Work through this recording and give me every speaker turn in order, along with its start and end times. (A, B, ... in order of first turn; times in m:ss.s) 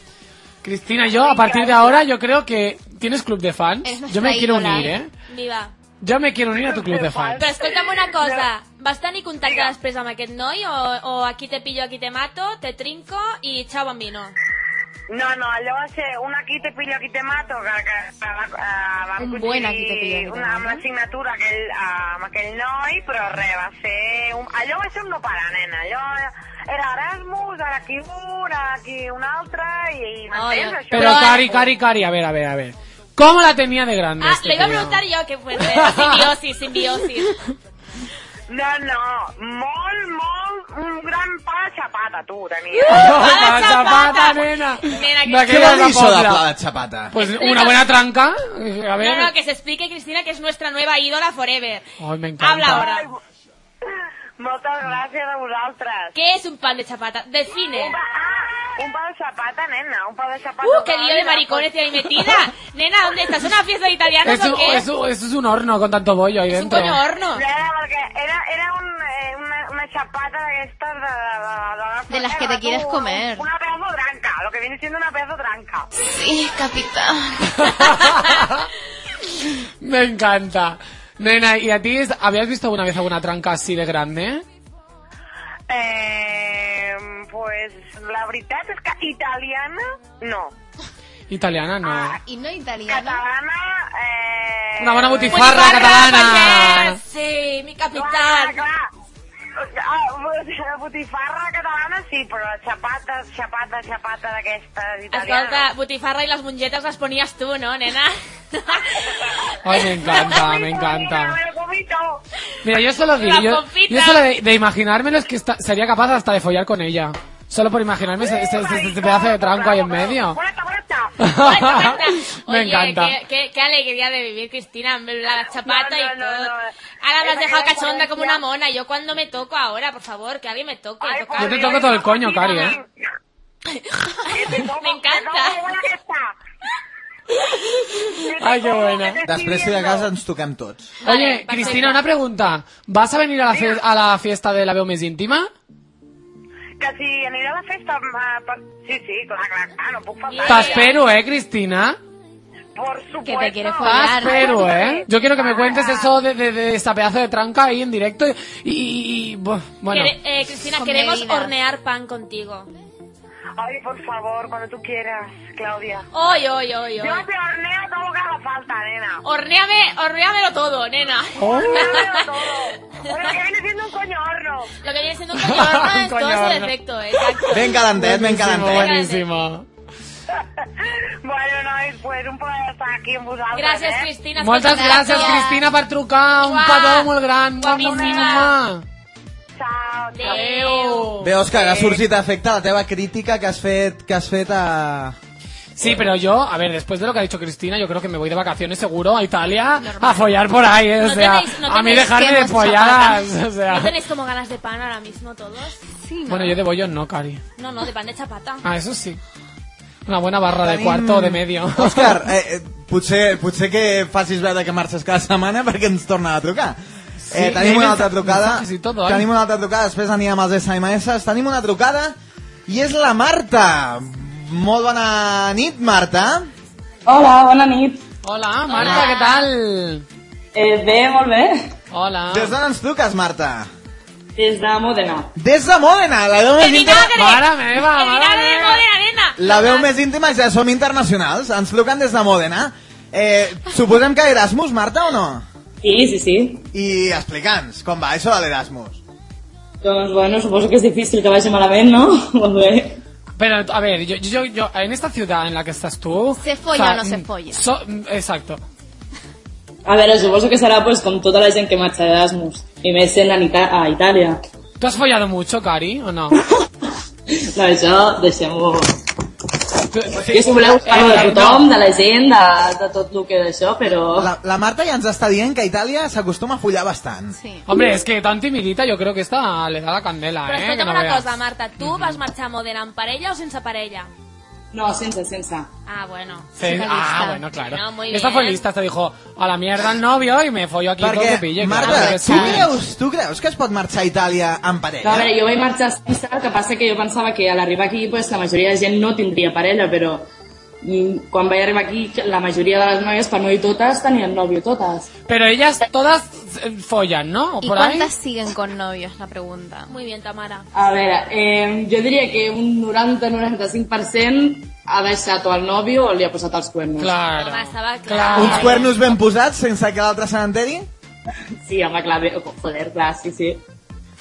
0:00.6-0:05.1 A
0:01.0-0:02.1 B
0:03.8-0:04.9 C
0:05.3-0:05.7 D
0:06.0-0:07.5 A
0:06.6-0:08.5 B
0:07.4-0:14.4 D
0:09.4-0:09.7 B
0:15.1-0:31.6 B
0:19.2-0:20.8 C
0:30.3-0:31.6 D
0:30.9-0:35.0 A
0:34.2-0:37.4 D
0:35.6-0:36.3 A
0:38.5-0:43.6 B
0:42.7-0:45.8 D
0:42.9-0:46.4 A
0:45.4-0:47.1 E
0:47.1-0:49.3 A
0:47.2-0:47.9 D
0:49.0-0:51.9 D
0:52.0-0:52.9 A
0:52.4-0:53.1 D
0:52.7-0:53.1 B
0:54.4-0:56.2 B
0:56.2-0:58.0 D
0:57.7-1:01.7 B
1:00.6-1:04.9 D
1:04.2-1:07.0 A
1:06.5-1:07.4 D
1:07.3-1:15.9 B
1:12.1-1:13.5 C
1:16.0-1:18.1 C
1:17.6-1:18.7 A
1:19.8-1:24.4 A
1:25.7-1:30.6 B
1:31.3-1:32.2 A
1:31.8-1:32.2 B
1:32.2-1:33.2 C
1:32.9-1:36.0 B
1:34.8-1:37.0 A
1:35.3-1:38.6 D
1:37.9-1:38.9 B
1:39.6-1:45.7 B
1:45.1-1:49.3 D
1:48.9-1:52.2 B
1:49.6-1:51.4 A
1:50.0-1:50.4 D
1:52.6-2:00.4 A
1:53.2-1:54.3 D
1:58.2-2:01.2 B
2:01.2-2:03.2 A
2:01.4-2:12.8 D
2:05.5-2:06.7 B
2:07.2-2:08.4 B
2:11.0-2:12.9 B
2:11.4-2:12.8 A
2:13.7-2:15.6 D
2:14.3-2:16.4 B
2:18.0-2:19.2 A
2:18.1-2:20.1 B
2:19.3-2:20.9 E
2:21.0-2:22.0 D
2:21.0-2:25.5 A
2:23.5-2:23.8 B
2:26.8-2:31.0 B
2:30.3-2:31.0 D
2:30.5-2:32.0 A
2:32.8-2:36.2 B
2:33.2-2:34.7 C
2:33.8-2:40.1 A
2:39.9-2:42.7 D
2:40.7-2:41.5 C
2:43.6-2:46.1 B
2:46.1-2:47.2 D
2:47.0-2:49.2 B
2:49.2-2:52.4 D
2:51.4-2:52.0 A
2:51.4-2:54.7 B
2:53.0-2:53.3 D
2:54.8-2:57.8 D
2:55.4-2:56.7 A
2:57.5-2:59.0 E
2:57.9-2:59.7 A
2:58.7-2:59.2 D
3:00.4-3:04.1 B
3:03.5-3:05.6 D
3:04.4-3:08.8 A
3:04.6-3:05.6 C
3:06.4-3:08.5 D
3:07.7-3:08.4 B
3:09.6-3:10.5 B
3:10.2-3:11.1 D
3:10.2-3:11.4 A
3:11.2-3:15.2 E
3:15.8-3:23.9 A
3:19.8-3:20.4 C
3:21.0-3:23.0 D
3:21.9-3:23.2 C
3:23.7-3:25.8 D
3:26.0-3:26.6 C
3:26.3-3:27.4 A
3:27.6-3:28.6 D
3:28.6-3:29.2 A
3:30.1-3:32.2 A
3:30.6-3:36.8 E
3:37.2-3:39.3 A
3:37.3-3:42.2 E
3:42.7-3:46.5 E
3:47.0-3:48.0 F
3:48.2-3:50.1 A
3:48.7-3:49.5 D
3:50.5-3:51.7 F
3:51.9-3:52.6 A
3:52.3-3:53.7 E
3:54.4-3:55.3 F
3:55.4-3:57.2 E
3:56.6-3:59.9 D
3:57.2-3:58.8 A
3:59.4-4:05.5 E
4:05.8-4:06.7 F
4:06.7-4:09.0 E
4:09.8-4:13.0 F
4:13.4-4:18.6 A
4:16.4-4:17.6 C
4:19.8-4:24.4 F
4:24.8-4:26.4 A
4:26.4-4:29.0 F
4:29.9-4:31.7 A
4:30.2-4:34.3 F
4:34.2-4:37.4 E
4:37.4-4:37.7 C
4:37.7-4:41.3 A
4:40.5-4:44.1 D
4:41.8-4:42.2 A
4:44.7-4:45.7 F
4:45.9-4:46.5 D
4:46.6-4:52.8 A
4:46.6-4:47.4 C
4:47.7-4:48.6 D
4:51.0-4:55.4 E
4:51.8-4:52.6 C
4:55.0-5:00.3 F
5:00.8-5:05.1 F
5:05.3-5:08.1 A
5:07.6-5:09.9 C
5:09.9-5:10.7 D
5:10.7-5:17.2 F
5:17.0-5:18.9 A
5:17.3-5:19.2 D
5:18.4-5:20.9 E
5:21.6-5:23.6 F